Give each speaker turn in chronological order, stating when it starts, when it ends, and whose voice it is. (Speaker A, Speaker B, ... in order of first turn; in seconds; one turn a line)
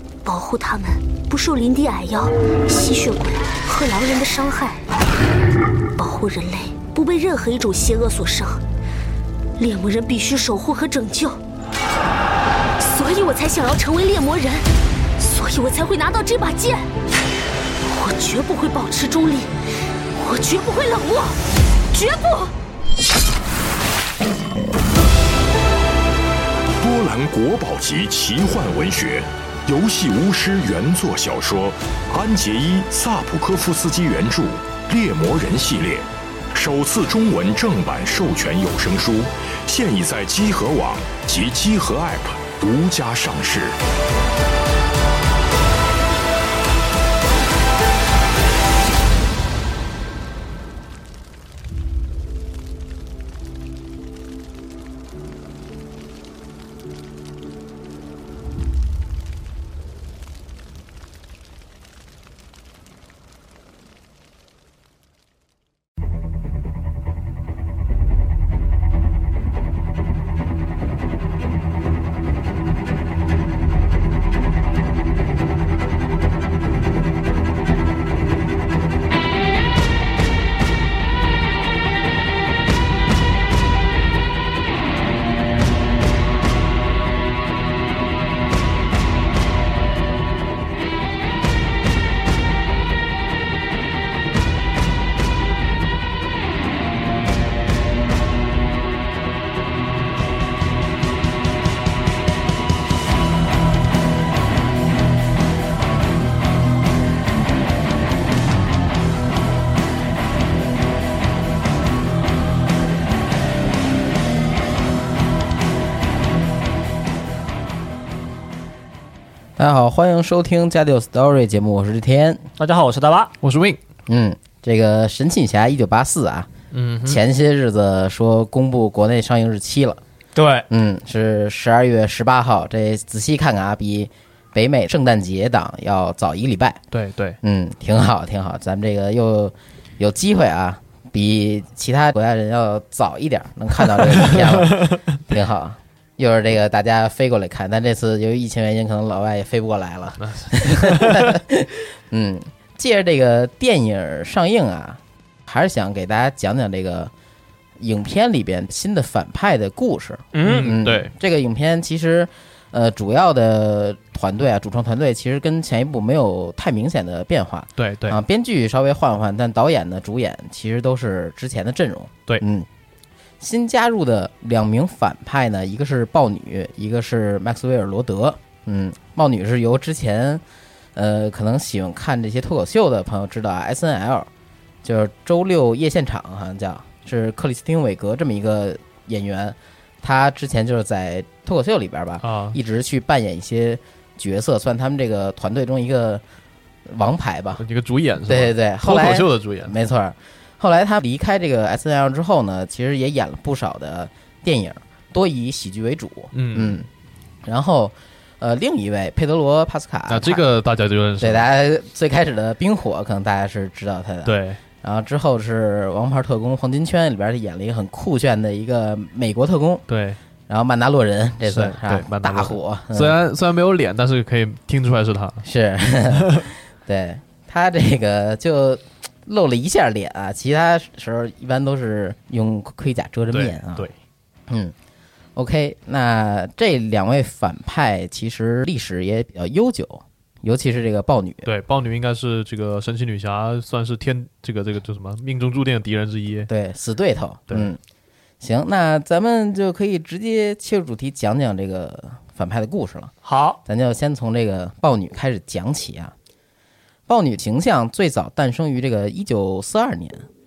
Speaker A: 0.2-4.8
Speaker A: 6.0-8.6
Speaker A: 9.6-11.4
Speaker A: 12.8-14.6
Speaker A: 15.2-16.9
Speaker A: 17.9-19.5
Speaker A: 20.1-21.3
Speaker A: 21.9-22.5
Speaker B: 26.8-43.8
Speaker C: 119.6-122.4
Speaker D: 122.6-123.3
Speaker E: 123.4-123.8
Speaker C: 124.1-126.5
Speaker E: 126.7-127.2
Speaker C: 127.0-130.0
Speaker D: 130.3-130.7
Speaker C: 130.7-136.8
Speaker E: 136.9-137.4
Speaker C: 137.4-157.1
Speaker E: 144.0-145.0
Speaker E: 150.2-151.3
Speaker C: 157.8-172.7
Speaker D: 160.3-160.8
Speaker E: 160.4-161.1
Speaker E: 167.8-168.2
Speaker C: 173.4-180.4
Speaker C: 180.9-184.3
Speaker C: 184.8-196.2
Speaker E: 192.2-192.6
Speaker C: 196.9-197.6
Speaker E: 197.6-199.7
Speaker C: 198.3-206.9
Speaker E: 206.3-206.8
Speaker C: 207.4-210.4
Speaker E: 210.1-211.4
Speaker C: 211.2-219.8
Speaker E: 214.2-214.6
Speaker E: 219.9-220.2
Speaker C: 220.5-223.1
Speaker E: 221.4-225.4
Speaker C: 225.4-233.9
Speaker E: 226.2-226.4
Speaker E: 233.3-233.9
Speaker C: 235.3-241.5
Speaker E: 241.4-246.5
Speaker C: 246.5-247.8
Speaker C: 248.4-253.1
Speaker D: 253.2-253.6
Speaker C: 253.6-256.1
Speaker C: 257.1-260.2